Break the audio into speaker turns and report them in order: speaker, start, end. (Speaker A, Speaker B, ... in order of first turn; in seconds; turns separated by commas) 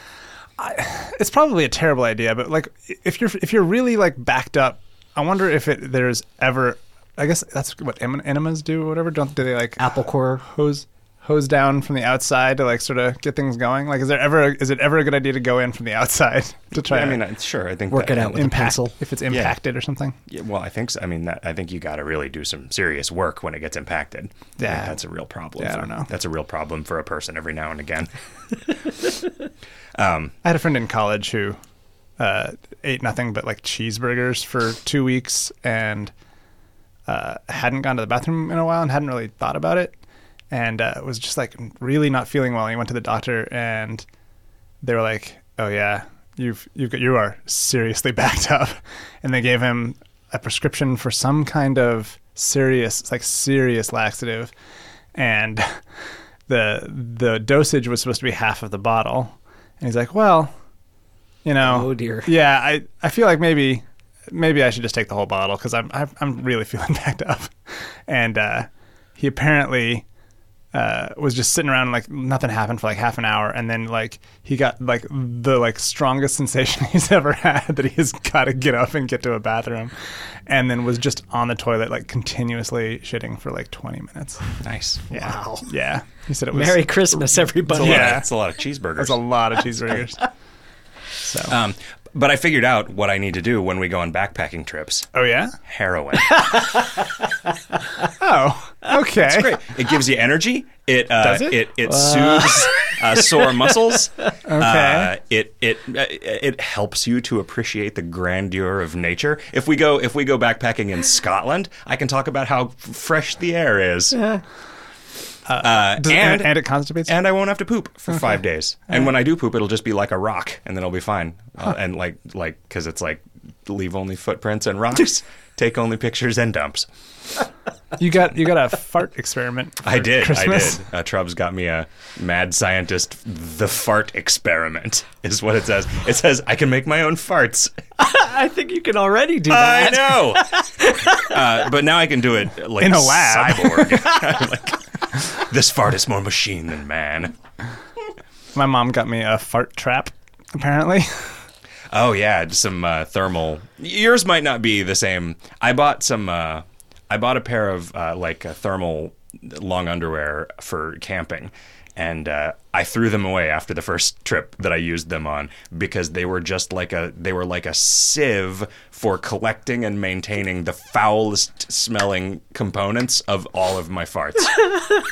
Speaker A: 0.6-17.2, Speaker B: 9.8-10.4, Speaker C: 16.8-18.4, Speaker B: 17.9-18.9, Speaker A: 18.3-20.2, Speaker C: 19.3-19.5, Speaker C: 20.3-28.1, Speaker A: 24.6-25.0, Speaker A: 25.6-26.1, Speaker C: 28.7-28.9, Speaker C: 29.9-30.3, Speaker A: 30.4-31.6, Speaker A: 32.2-36.1, Speaker A: 37.1-40.0, Speaker A: 40.5-44.0, Speaker A: 44.8-54.5, Speaker A: 55.1-55.8, Speaker A: 56.5-60.5, Speaker A: 61.5-67.5, Speaker B: 61.6-62.3, Speaker A: 68.1-70.0, Speaker A: 70.7-79.9, Speaker A: 80.5-84.6, Speaker C: 84.6-85.1, Speaker A: 85.1-88.3, Speaker B: 85.1-85.6, Speaker B: 86.5-88.2, Speaker C: 87.7-89.2, Speaker A: 89.0-90.3, Speaker A: 91.2-91.5, Speaker C: 91.5-95.1, Speaker A: 95.1-95.6, Speaker C: 95.6-96.4, Speaker B: 96.4-97.3, Speaker A: 98.0-99.6, Speaker C: 99.2-114.3, Speaker A: 101.2-101.6, Speaker B: 102.0-102.8, Speaker A: 104.5-105.1, Speaker A: 115.5-117.2, Speaker C: 115.6-126.9, Speaker A: 128.0-130.8, Speaker C: 129.8-137.7, Speaker B: 138.0-141.6, Speaker C: 139.5-147.3, Speaker A: 142.8-144.1, Speaker A: 148.6-151.4, Speaker C: 151.9-174.7